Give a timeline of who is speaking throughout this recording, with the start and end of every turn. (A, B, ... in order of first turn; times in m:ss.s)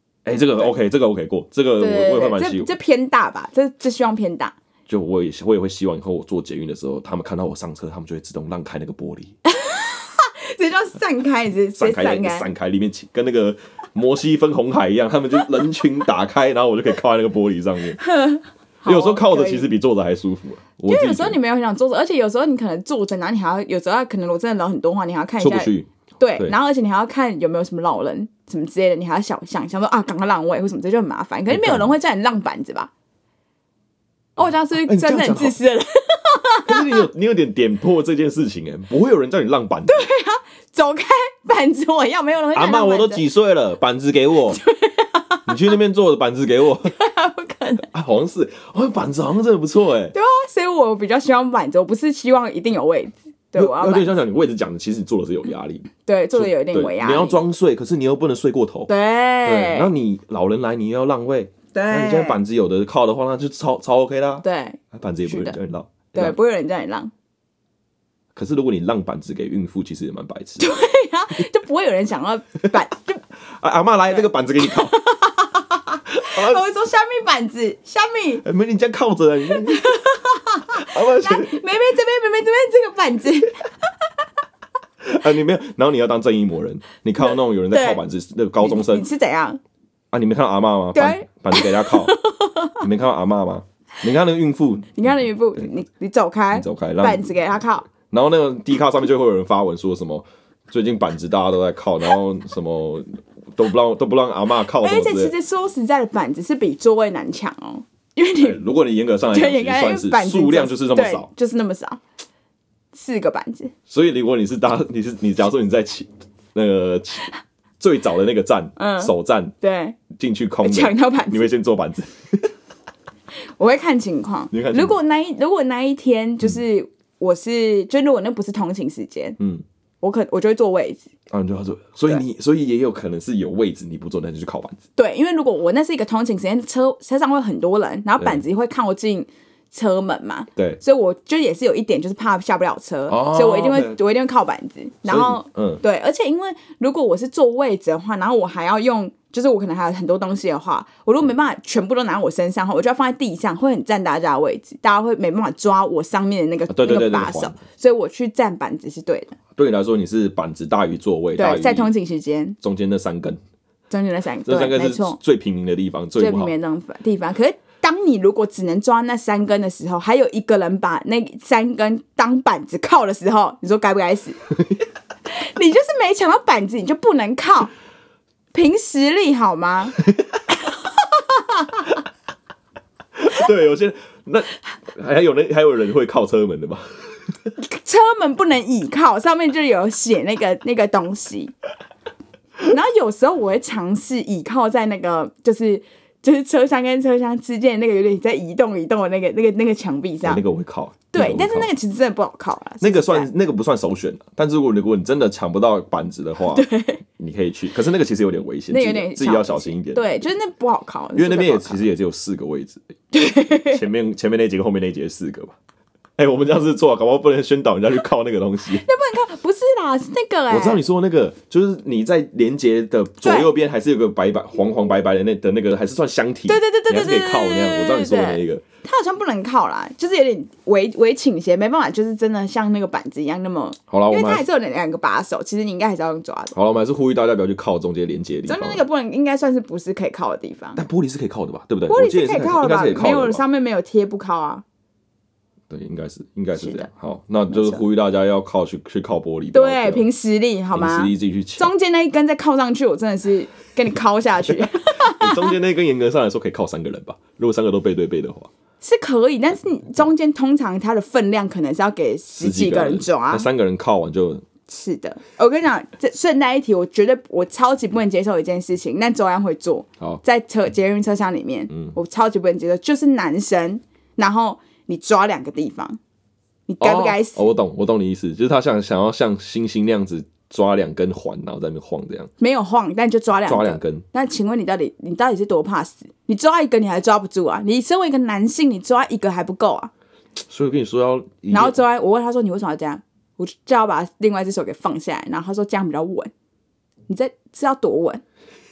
0:00.2-0:02.7 A
0:00.4-0:00.7 B
0:01.8-0:04.5 B
0:04.9-0:09.4 A
0:09.4-0:12.5 B
0:11.8-0:18.0 A
0:18.0-0:19.7 B
0:18.8-0:21.4 A
0:20.9-0:32.9 B
0:25.4-0:26.5 A
0:31.5-0:31.9 A
0:34.4-0:37.1 B
0:34.7-0:35.6 A
0:36.6-0:40.1 A
0:39.9-0:43.2 B
0:42.5-0:44.6 A
0:44.5-0:45.7 B
0:45.5-0:46.9 A
0:46.8-0:47.9 B
0:47.9-0:50.1 A
0:50.1-0:54.2 B
0:53.5-0:58.9 A
0:56.0-0:57.4 B
0:58.9-0:59.9 B
0:59.4-1:06.4 A
1:01.7-1:02.4 B
1:04.4-1:05.6 B
1:06.1-1:07.1 B
1:08.3-1:10.7 A
1:10.6-1:13.2 B
1:13.6-1:15.0 A
1:14.1-1:18.4 B
1:16.1-1:16.6 A
1:18.4-1:20.0 A
1:19.5-1:23.7 B
1:20.7-1:21.6 A
1:25.0-1:29.0 A
1:27.2-1:28.0 B
1:28.6-1:29.6 B
1:30.1-1:32.2 A
1:30.9-1:32.8 B
1:32.8-1:35.7 A
1:35.0-1:37.9 B
1:36.5-1:37.3 A
1:37.9-1:45.3 A
1:44.8-1:48.6 B
1:48.4-1:51.3 A
1:49.3-1:52.0 B
1:52.9-1:53.7 B
1:53.9-1:59.5 A
1:58.8-2:00.0 B
2:00.1-2:02.5 A
2:00.6-2:01.5 B
2:03.6-2:09.4 B
2:04.5-2:05.0 A
2:09.4-2:09.6 A
2:10.0-2:11.0 B
2:11.3-2:14.8 A
2:15.0-2:39.4 B
2:23.1-2:24.0 A
2:25.0-2:25.8 A
2:36.7-2:37.6 A
2:39.6-2:41.9 A
2:41.4-2:42.6 B
2:42.6-2:43.4 A
2:43.9-2:45.2 B
2:44.4-2:46.5 A
2:46.2-2:54.4 B
2:55.3-2:57.7 B
2:58.5-3:00.0 B
3:00.0-3:00.4 A
3:00.6-3:01.9 B
3:03.2-3:06.9 A
3:07.6-3:11.5 B
3:12.6-3:20.4 B
3:20.2-3:21.7 A
3:21.1-3:23.3 B
3:22.8-3:30.0 A
3:26.4-3:27.0 B
3:28.7-3:31.8 B
3:31.2-3:35.6 A
3:33.1-3:33.8 B
3:36.2-3:38.9 A
3:38.8-3:40.8 B
3:40.5-3:48.6 A
3:43.2-3:43.5 B
3:46.5-3:56.5 B
3:53.9-3:54.4 A
3:56.5-3:58.8 A
3:58.4-4:00.8 B
4:00.8-4:03.4 A
4:01.9-4:04.6 B
4:05.7-4:10.1 A
4:06.5-4:06.9 B
4:07.5-4:07.8 B
4:09.5-4:15.5 B
4:10.7-4:11.7 A
4:14.5-4:18.5 A
4:18.8-4:23.5 B
4:22.3-4:24.5 A
4:24.7-4:36.0 B
4:31.7-4:32.0 A
4:36.7-4:37.4 B
4:36.8-4:42.3 A
4:42.4-4:49.9 B
4:43.4-4:44.0 A
4:50.5-4:51.8 A
4:51.5-4:56.3 B
4:57.1-4:58.2 B